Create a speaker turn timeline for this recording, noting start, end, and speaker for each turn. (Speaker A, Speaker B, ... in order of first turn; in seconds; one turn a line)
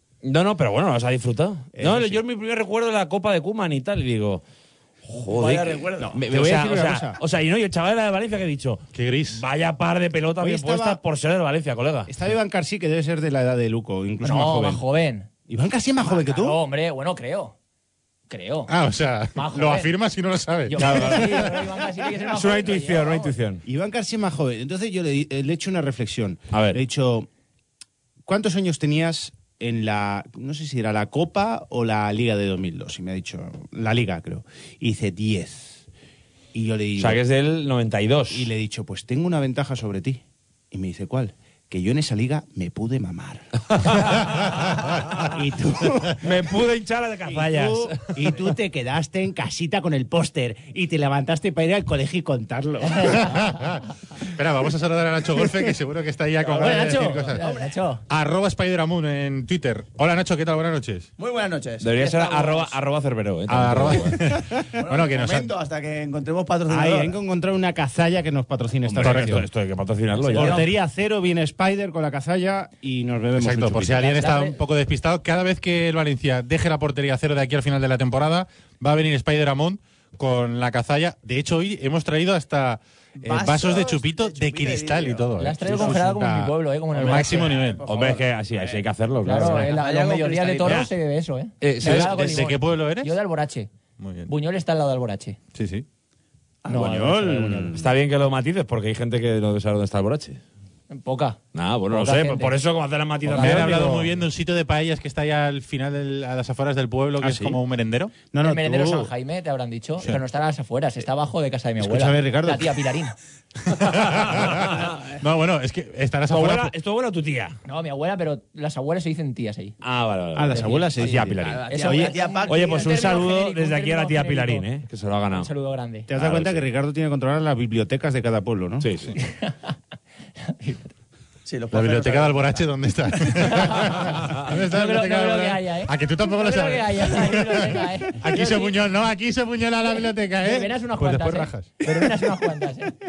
Speaker A: 0.2-4.4
Speaker B: 1.8-2.2
Speaker A: 5.0-12.1
Speaker C: 5.4-6.0
Speaker B: 6.0-7.2
Speaker D: 8.9-9.4
Speaker B: 10.4-11.0
Speaker B: 12.1-14.8
Speaker E: 14.2-15.3
Speaker B: 15.5-16.6
Speaker E: 16.1-17.5
Speaker E: 18.3-18.7
Speaker D: 18.7-21.5
Speaker E: 19.4-19.9
Speaker E: 20.7-23.3
Speaker A: 20.8-21.3
Speaker A: 22.3-23.6
Speaker B: 23.7-27.3
Speaker A: 26.5-26.8
Speaker B: 28.3-35.9
Speaker B: 36.5-37.2
Speaker A: 37.0-38.5
Speaker B: 38.3-43.5
Speaker A: 43.8-44.5
Speaker B: 45.2-46.3
Speaker A: 46.2-48.4
Speaker B: 47.3-53.3
Speaker E: 53.0-53.4
Speaker D: 53.2-57.4
Speaker E: 56.5-58.0
Speaker C: 57.4-57.7
Speaker D: 58.1-61.1
Speaker C: 61.2-62.7
Speaker A: 61.8-64.2
Speaker D: 63.5-65.5
Speaker C: 64.8-67.2
Speaker B: 66.7-69.5
Speaker A: 68.9-70.7
Speaker D: 69.0-69.5
Speaker B: 70.3-74.2
Speaker D: 73.4-87.8
Speaker E: 74.1-74.6
Speaker C: 83.2-85.3
Speaker E: 85.4-87.7
Speaker C: 87.0-90.9
Speaker A: 87.9-89.8
Speaker E: 89.2-93.7
Speaker A: 90.6-90.9
Speaker A: 91.6-92.2
Speaker D: 91.8-93.2
Speaker D: 94.0-94.3
Speaker E: 94.3-95.4
Speaker D: 95.5-95.9
Speaker E: 96.7-97.8
Speaker B: 96.7-97.9
Speaker A: 97.7-100.4
Speaker E: 100.9-101.4
Speaker A: 101.5-104.1
Speaker E: 101.9-102.6
Speaker D: 103.3-108.1
Speaker E: 103.4-103.9
Speaker B: 107.2-107.6
Speaker B: 108.2-109.1
Speaker E: 108.4-113.2
Speaker B: 111.8-112.8
Speaker D: 113.7-116.7
Speaker A: 114.2-114.9
Speaker A: 116.3-117.6
Speaker E: 117.7-119.8
Speaker A: 119.8-121.7
Speaker B: 120.3-122.2
Speaker E: 120.5-120.9
Speaker C: 121.4-123.3
Speaker E: 121.7-124.7
Speaker A: 122.5-125.5
Speaker E: 125.3-126.1
Speaker B: 126.1-128.9
Speaker A: 126.2-126.6
Speaker A: 128.8-129.2
Speaker E: 129.2-129.7
Speaker E: 130.4-130.9
Speaker C: 131.5-132.7
Speaker D: 131.7-141.7
Speaker E: 133.4-138.7
Speaker E: 140.4-142.9